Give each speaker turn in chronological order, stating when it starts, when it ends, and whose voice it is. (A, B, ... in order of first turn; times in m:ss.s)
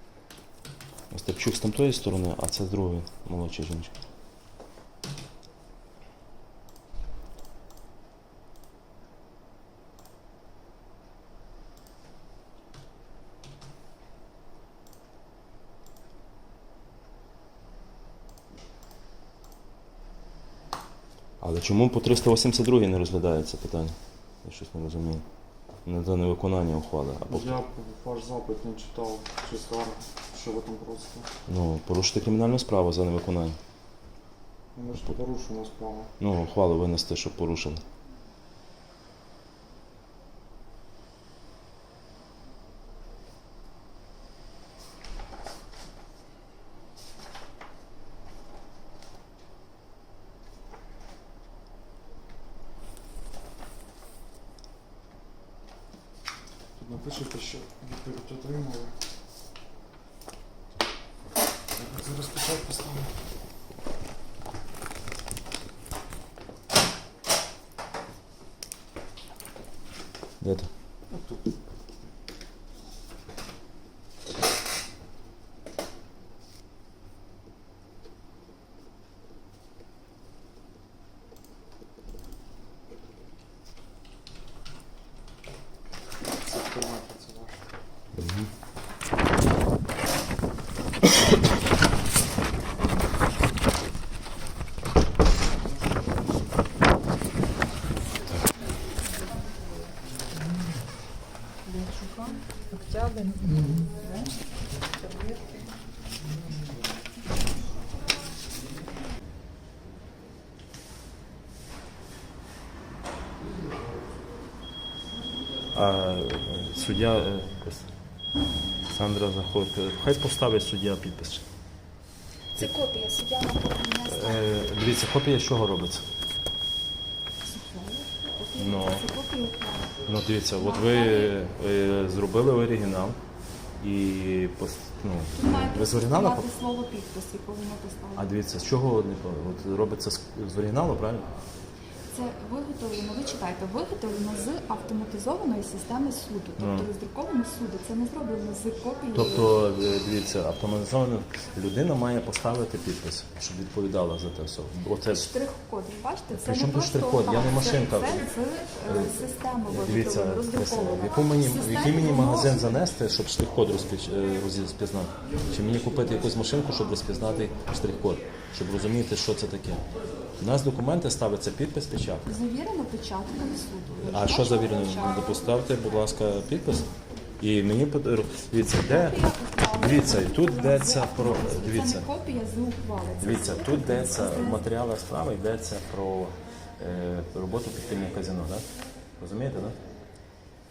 0:01.1-0:03.9 A
0:21.4-0:25.2 A
0:25.8-0:27.6 A
0:27.2-0:31.3 B
0:31.5-0:33.6 A
0:34.8-0:36.1 B
0:36.2-0:37.8 A
0:56.8-0:59.0 B
1:01.8-1:03.2 B
1:10.4-1:10.7 A
1:11.1-1:11.5 B
1:26.4-1:27.6 B
1:28.1-1:28.5 A
1:41.6-1:44.2 C
1:41.8-1:42.3 D
1:44.8-1:45.6 C
1:55.7-1:57.9 A
1:58.9-2:01.4 A
2:02.5-2:04.6 D
2:04.1-2:06.1 A
2:07.4-2:10.0 D
2:08.6-2:09.1 A
2:10.0-2:13.2 A
2:10.5-2:11.4 D
2:13.8-2:16.5 A
2:15.3-2:18.3 D
2:18.2-2:21.3 A
2:22.1-2:29.6 D
2:26.6-2:26.9 A
2:29.1-2:35.3 A
2:35.1-2:42.8 D
2:36.3-2:38.3 A
2:38.8-2:49.8 A
2:50.4-2:52.4 A
2:52.3-2:55.6 D
2:54.1-3:02.1 A
2:58.8-3:04.6 D
3:03.2-3:09.8 A